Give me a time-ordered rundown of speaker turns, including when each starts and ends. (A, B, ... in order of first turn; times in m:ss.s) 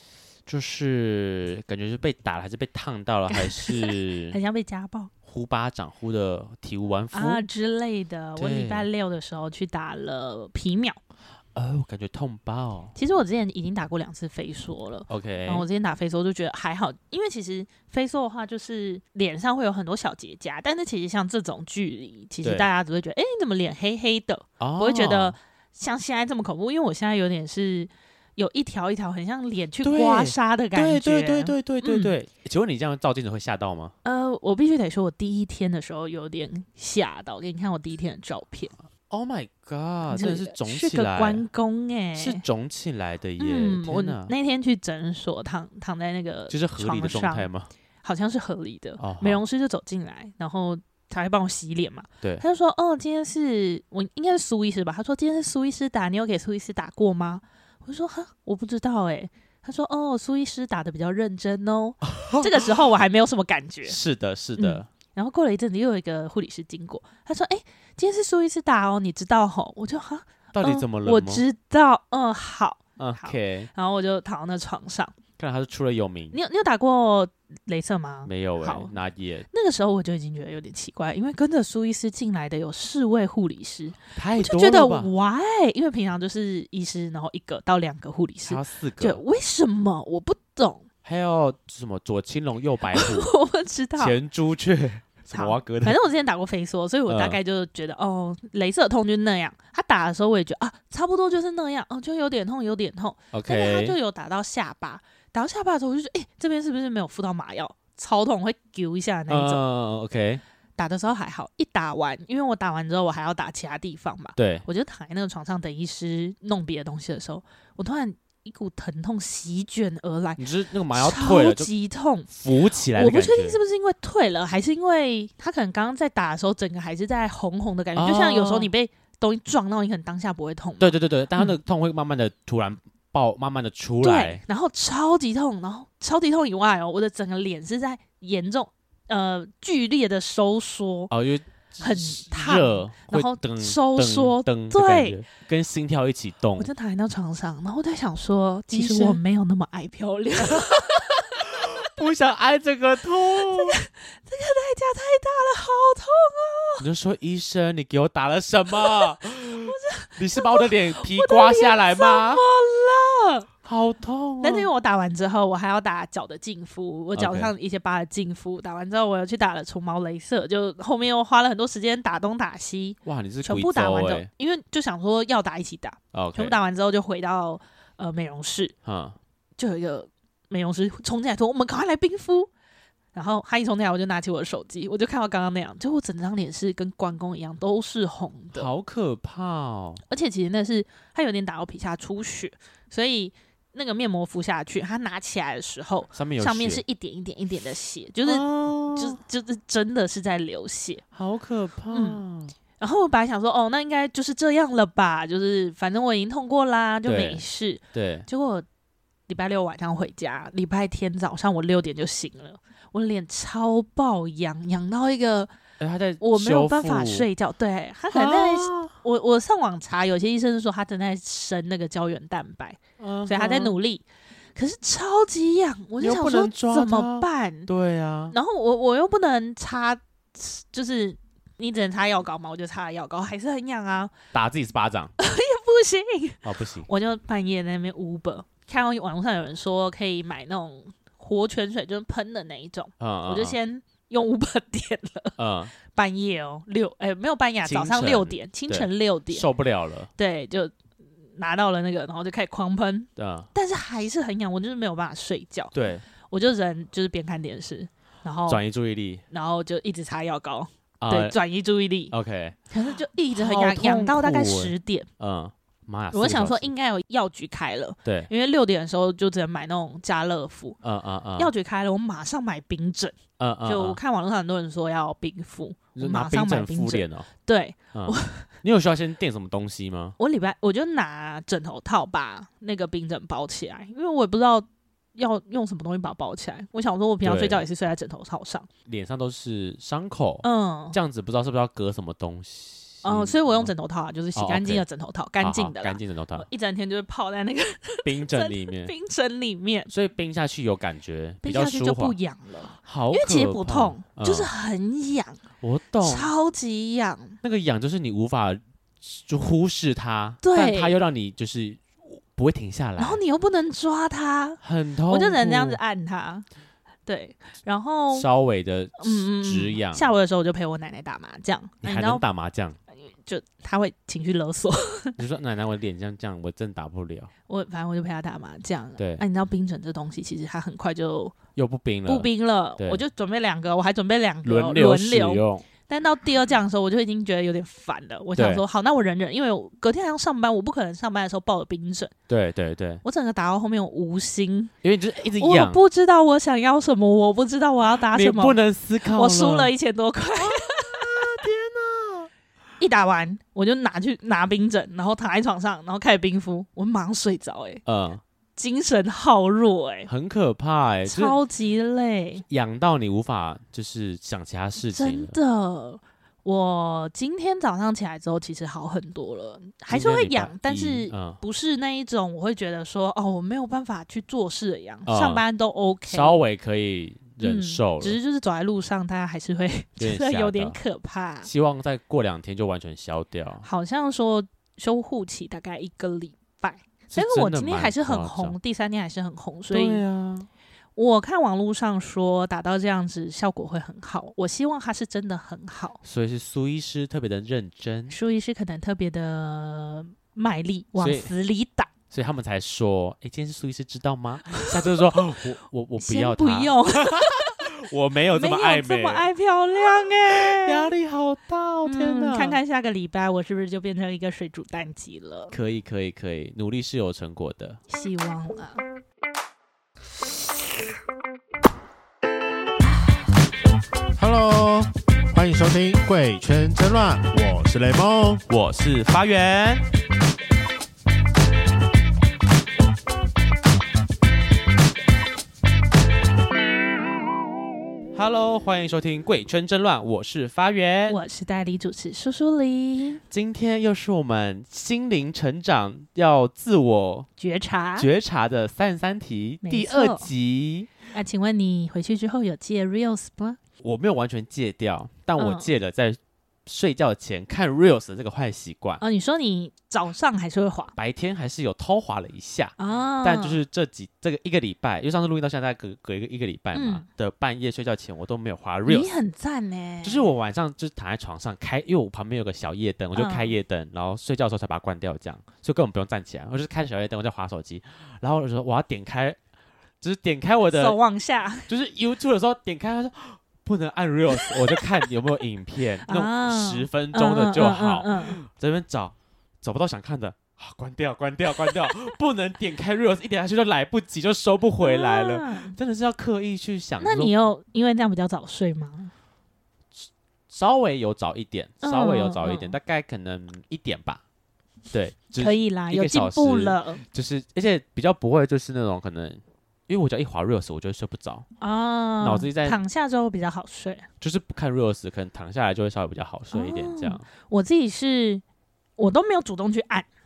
0:00.5-0:04.4 A
0:03.3-0:05.1 B
0:05.2-0:07.5 A
0:07.1-0:11.0 B
0:08.4-0:08.9 A
0:11.5-0:13.0 A
0:13.0-0:32.2 B
0:15.1-0:15.7 A
0:22.4-0:22.7 A
0:24.6-0:25.4 A
0:29.8-0:34.0 A
0:34.0-0:38.7 B
0:39.1-0:41.4 A
0:40.1-0:42.4 B
0:42.2-0:44.3 A
0:43.4-0:47.5 B
0:46.5-0:47.7 A
0:48.0-1:04.0 B
0:49.0-0:49.4 A
1:02.2-1:02.7 A
1:03.8-1:04.9 A
1:04.6-1:15.1 B
1:10.5-1:11.4 A
1:13.0-1:13.7 A
1:15.4-1:16.4 A
1:16.3-1:18.9 B
1:18.2-1:19.5 A
1:19.5-1:30.9 B
1:24.2-1:25.1 A
1:28.5-1:29.2 A
1:31.0-1:33.3 A
1:32.9-1:34.2 B
1:34.0-1:36.0 A
1:35.3-1:49.6 B
1:37.1-1:37.4 A
1:43.3-1:44.0 A
1:49.3-1:50.4 A
1:50.8-2:11.5 B
1:54.4-1:54.7 A
2:00.4-2:01.7 A
2:02.3-2:03.6 A
2:08.0-2:08.7 A
2:10.8-2:14.4 A
2:14.0-2:21.1 B
2:21.1-2:26.7 A
2:21.8-2:25.2 B
2:26.6-2:31.3 B
2:28.7-2:29.2 A
2:30.4-2:33.8 A
2:33.4-2:36.8 B
2:36.8-2:42.4 A
2:38.8-2:43.5 B
2:43.6-2:44.7 A
2:44.4-2:58.7 B
2:47.2-2:47.5 A
2:53.0-2:54.3 A
2:56.1-2:56.6 A
2:58.8-2:59.2 A
2:59.6-3:02.5 B
3:03.1-3:08.7 B
3:08.5-3:10.0 A
3:10.1-3:21.0 B
3:16.1-3:16.8 A
3:18.3-3:19.2 A
3:21.1-3:22.6 A
3:21.9-3:22.2 B
3:22.8-3:28.7 B
3:27.0-3:28.3 A
3:29.3-3:35.5 B
3:35.8-3:37.3 A
3:36.2-3:44.0 B
3:38.1-3:38.9 A
3:43.0-3:43.8 A
3:44.6-3:47.7 B
3:46.0-3:48.4 A
3:48.3-3:54.1 B
3:54.3-3:55.1 A
3:55.2-4:09.5 B
3:56.4-3:56.9 A
4:03.0-4:03.6 A
4:05.4-4:05.7 A
4:07.6-4:10.1 A
4:10.2-4:10.7 B
4:11.4-4:15.7 B
4:13.2-4:13.5 A
4:15.7-4:16.0 A
4:16.3-4:18.6 B
4:18.5-4:19.2 A
4:19.3-4:22.1 B
4:21.0-4:21.4 A
4:22.1-4:22.6 A
4:22.7-4:25.1 B
4:23.3-4:26.7 A
4:26.1-4:30.8 B
4:28.0-4:28.3 A
4:30.8-4:31.5 A
4:31.4-4:38.5 B
4:33.4-4:34.0 A
4:36.0-4:37.3 A
4:37.9-4:40.2 A
4:40.2-4:48.7 B
4:47.2-4:47.6 A
4:48.8-4:53.7 A
4:50.4-4:51.0 B
4:53.0-4:59.9 B
4:54.4-4:54.8 A
4:55.4-4:56.5 A
4:58.0-4:58.9 A
4:59.9-5:02.2 A
5:01.4-5:05.4 B
5:02.8-5:04.5 A
5:05.6-5:06.3 A
5:06.0-5:07.4 B
5:07.4-5:13.2 A
5:10.4-5:11.0 B
5:13.0-5:16.4 B
5:14.6-5:15.8 A
5:17.1-5:18.3 B
5:18.1-5:20.1 A
5:19.0-5:22.2 B
5:21.8-5:22.8 A
5:23.0-5:25.2 B
5:25.2-5:27.3 A
5:27.5-5:31.4 B
5:29.0-5:29.2 A
5:31.6-5:33.0 A
5:32.1-5:42.1 B
5:34.4-5:35.7 A
5:38.4-5:38.6 A
5:42.3-5:43.0 A
5:43.0-5:44.7 B
5:44.8-5:45.8 A
5:45.4-5:51.3 B
5:48.0-5:49.7 A
5:50.4-5:52.3 A
5:52.8-5:57.8 B
5:57.9-5:58.2 A
5:58.6-6:00.1 B
6:00.1-6:01.4 A
6:01.0-6:02.4 B
6:02.5-6:05.4 A
6:04.9-6:16.4 B
6:09.9-6:11.4 A
6:15.1-6:15.4 A
6:16.1-6:18.2 A
6:17.4-6:21.5 B
6:20.0-6:20.8 A
6:21.4-6:23.6 A
6:23.6-6:30.0 B
6:27.1-6:28.6 A
6:29.7-6:30.5 A
6:31.0-6:36.0 B
6:36.0-6:38.2 A
6:38.1-6:41.9 B
6:41.0-6:41.3 A
6:42.1-6:49.3 A
6:44.5-6:45.3 B
6:46.0-6:47.7 B
6:48.3-6:50.9 B
6:49.8-6:52.6 A
6:51.9-6:55.5 B
6:55.5-6:57.8 A
6:57.9-6:58.8 B
7:04.2-7:08.5 C
7:08.5-7:09.9 A
7:18.2-7:21.2 A
7:21.1-7:23.2 B
7:23.3-7:27.3 A
7:27.4-7:28.1 B
7:28.0-7:31.0 A
7:29.6-7:30.3 B
7:31.1-7:33.6 B
7:33.8-7:39.0 A
7:35.4-7:35.7 B
7:39.0-7:40.9 B
7:41.0-7:49.1 A
7:42.8-7:43.6 B
7:46.7-7:47.0 B
7:48.9-7:50.3 B
7:50.0-7:59.4 A
7:53.2-7:53.5 B
8:00.0-8:01.0 A
8:00.7-8:01.7 B
8:01.7-8:17.4 A
8:04.4-8:05.0 B
8:06.1-8:08.4 B
8:14.8-8:15.8 B
8:17.0-8:19.1 B
8:20.0-8:24.2 A
8:21.8-8:22.8 B
8:24.9-8:31.5 A
8:25.4-8:27.0 B
8:31.6-8:34.1 B
8:32.2-8:32.8 A
8:34.2-8:37.2 A
8:36.5-8:38.4 B
8:39.0-8:40.1 B